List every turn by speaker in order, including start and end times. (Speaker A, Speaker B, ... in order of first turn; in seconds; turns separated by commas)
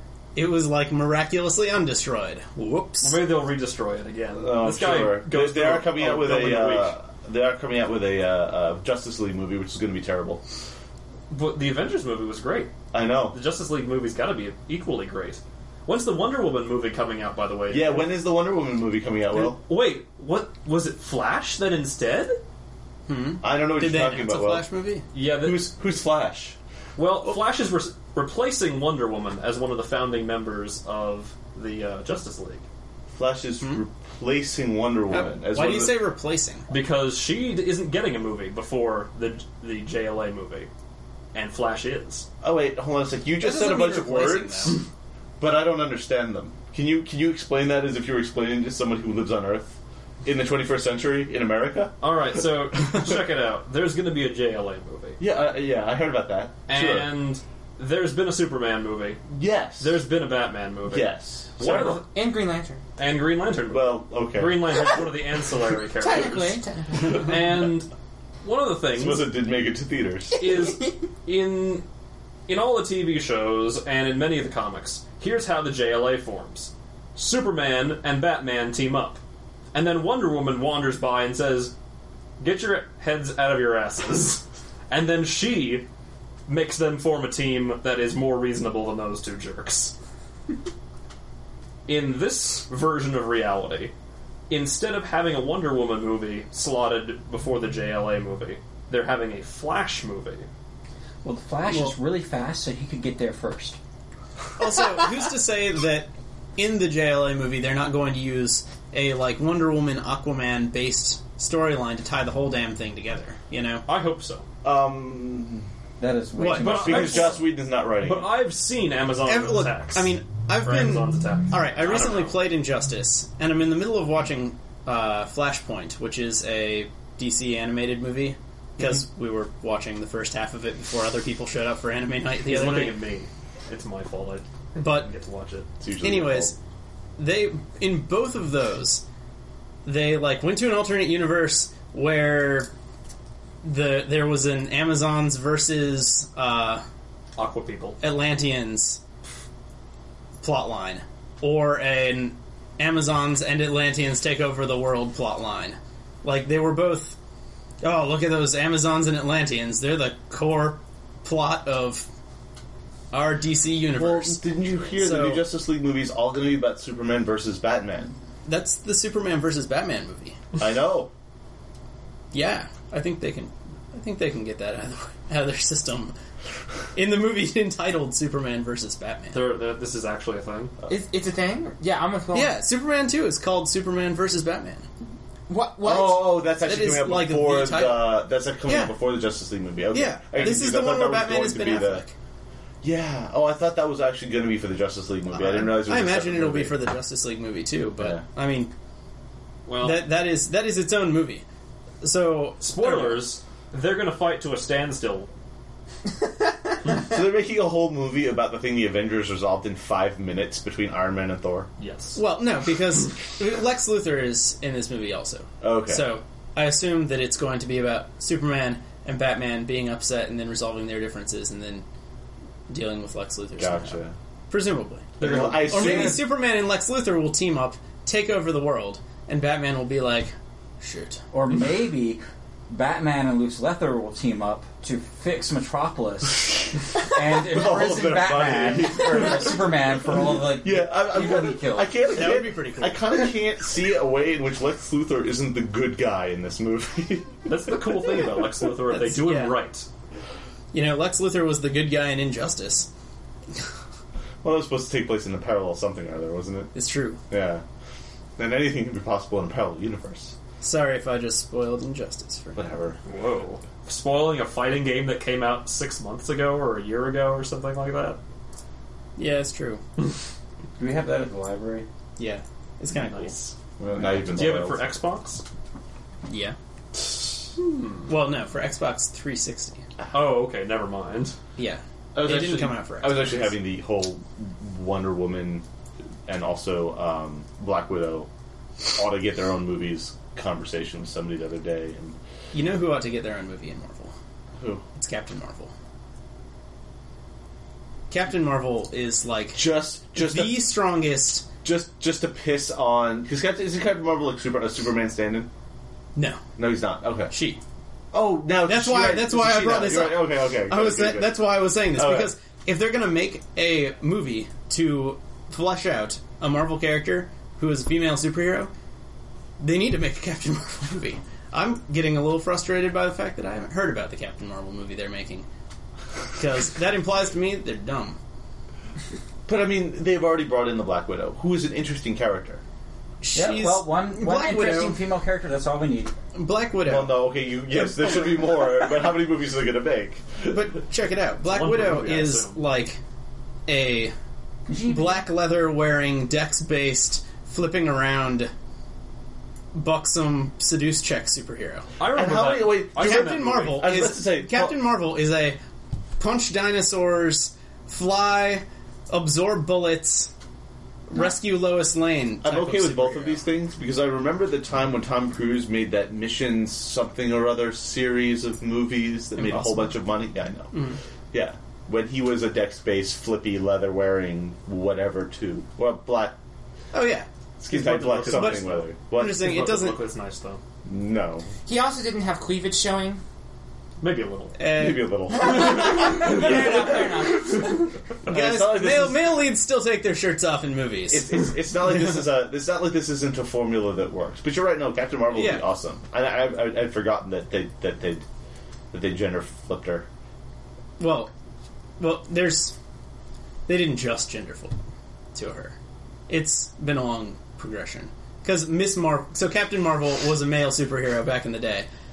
Speaker A: 0.3-3.2, Speaker B: 3.0-6.9, Speaker C: 4.4-10.4, Speaker B: 11.3-12.7, Speaker C: 12.9-13.4, Speaker B: 13.3-18.1, Speaker C: 17.7-19.6, Speaker B: 19.3-22.4, Speaker A: 23.1-25.1, Speaker C: 23.4-24.7, Speaker B: 25.1-25.7, Speaker C: 25.4-26.6, Speaker B: 26.9-32.6, Speaker C: 33.1-36.0, Speaker A: 35.1-36.7, Speaker B: 36.7-40.7, Speaker B: 41.3-42.3, Speaker C: 42.4-44.8, Speaker A: 43.4-44.8, Speaker C: 45.4-52.0, Speaker B: 52.0-55.2, Speaker C: 55.2-57.1, Speaker B: 56.7-59.2, Speaker C: 59.3-60.0, Speaker B: 59.8-62.0, Speaker C: 60.9-62.0, Speaker D: 61.7-62.8, Speaker B: 63.0-67.9, Speaker C: 63.7-64.9, Speaker D: 66.0-67.4, Speaker B: 68.4-69.3, Speaker C: 68.9-70.4, Speaker D: 70.3-70.9, Speaker B: 70.4-71.8, Speaker B: 72.5-79.2, Speaker B: 79.7-81.7, Speaker B: 82.4-85.9, Speaker B: 86.5-89.9, Speaker B: 91.9-93.9, Speaker B: 94.5-100.5, Speaker E: 101.2-103.8, Speaker A: 101.7-101.9, Speaker A: 104.6-113.8, Speaker B: 113.8-114.5, Speaker C: 114.6-115.7, Speaker E: 116.0-117.4, Speaker A: 116.3-117.3, Speaker B: 116.5-120.1, Speaker C: 116.6-118.3, Speaker A: 119.2-133.0, Speaker B: 120.6-122.4, Speaker B: 132.4-135.7, Speaker A: 134.8-135.1, Speaker C: 135.8-136.5, Speaker A: 136.0-136.5, Speaker A: 137.2-139.0, Speaker A: 139.8-142.7, Speaker A: 143.6-146.8, Speaker B: 147.3-148.0, Speaker A: 148.0-149.0, Speaker A: 150.4-157.2, Speaker A: 157.8-162.1, Speaker A: 163.1-164.4, Speaker C: 163.9-168.1, Speaker A: 164.9-165.5, Speaker A: 168.4-170.4, Speaker C: 170.6-171.1, Speaker A: 172.3-176.1, Speaker A: 176.9-179.4, Speaker B: 179.3-180.7, Speaker D: 180.9-182.6, Speaker A: 182.3-184.8, Speaker D: 185.5-186.4, Speaker C: 185.8-192.0, Speaker A: 186.6-188.9, Speaker A: 189.9-192.1, Speaker C: 192.8-196.8, Speaker A: 195.3-198.7, Speaker C: 198.0-198.2, Speaker B: 199.7-200.1, Speaker A: 199.8-201.4, Speaker A: 202.0-203.3, Speaker B: 202.6-205.3, Speaker C: 206.9-211.7, Speaker B: 211.8-212.2, Speaker A: 212.1-221.8, Speaker C: 215.6-216.2, Speaker A: 222.7-231.2, Speaker C: 223.6-224.1, Speaker C: 225.2-226.3, Speaker E: 231.3-242.0, Speaker C: 237.4-247.5, Speaker A: 242.1-243.0, Speaker B: 247.5-249.9, Speaker A: 248.9-249.6, Speaker A: 250.7-252.9, Speaker C: 254.4-256.7, Speaker A: 256.7-257.2, Speaker C: 257.3-257.6, Speaker C: 258.4-260.3, Speaker A: 260.6-262.6, Speaker C: 262.5-263.0, Speaker B: 263.0-268.2, Speaker A: 269.2-269.8, Speaker E: 270.8-271.9, Speaker A: 272.2-273.3, Speaker B: 272.9-273.5, Speaker C: 273.8-274.9, Speaker B: 274.2-275.4, Speaker A: 276.3-276.6, Speaker B: 277.6-278.1, Speaker A: 278.1-279.8, Speaker B: 280.1-281.4, Speaker A: 281.6-283.5, Speaker C: 282.1-285.6, Speaker C: 286.3-288.3, Speaker C: 288.9-292.2, Speaker A: 292.5-294.1, Speaker C: 294.6-294.8, Speaker A: 294.9-295.7, Speaker A: 298.1-301.4, Speaker C: 299.5-300.7, Speaker C: 301.6-305.5, Speaker A: 306.1-306.4, Speaker C: 306.6-307.3, Speaker A: 307.3-307.6, Speaker C: 308.1-312.3, Speaker A: 308.6-318.7, Speaker A: 319.6-325.4, Speaker A: 326.4-328.2, Speaker C: 329.5-332.6, Speaker A: 333.2-335.0, Speaker E: 333.3-336.1, Speaker A: 336.3-338.5, Speaker C: 336.9-340.6, Speaker A: 340.5-343.0, Speaker B: 341.4-342.6, Speaker A: 343.7-344.1, Speaker E: 344.7-345.2, Speaker A: 344.8-348.5, Speaker A: 349.7-351.9, Speaker B: 352.0-353.9, Speaker C: 352.1-354.8, Speaker A: 352.9-355.6, Speaker A: 356.2-360.3, Speaker A: 361.1-363.4, Speaker C: 362.4-370.8, Speaker A: 369.4-369.9, Speaker A: 370.7-371.0, Speaker C: 371.3-376.4, Speaker A: 376.9-377.3, Speaker C: 377.6-379.6, Speaker B: 377.7-380.6, Speaker A: 377.8-380.0, Speaker C: 380.8-381.5, Speaker D: 381.6-383.2, Speaker B: 384.0-384.6, Speaker A: 384.6-385.5, Speaker C: 384.7-387.4, Speaker D: 385.3-387.8, Speaker C: 388.2-389.3, Speaker A: 388.3-392.1, Speaker C: 391.1-398.2, Speaker A: 395.3-395.6, Speaker C: 398.9-400.1, Speaker A: 401.0-401.3, Speaker A: 402.0-402.7, Speaker A: 403.7-404.7, Speaker A: 405.3-405.7, Speaker A: 406.3-411.9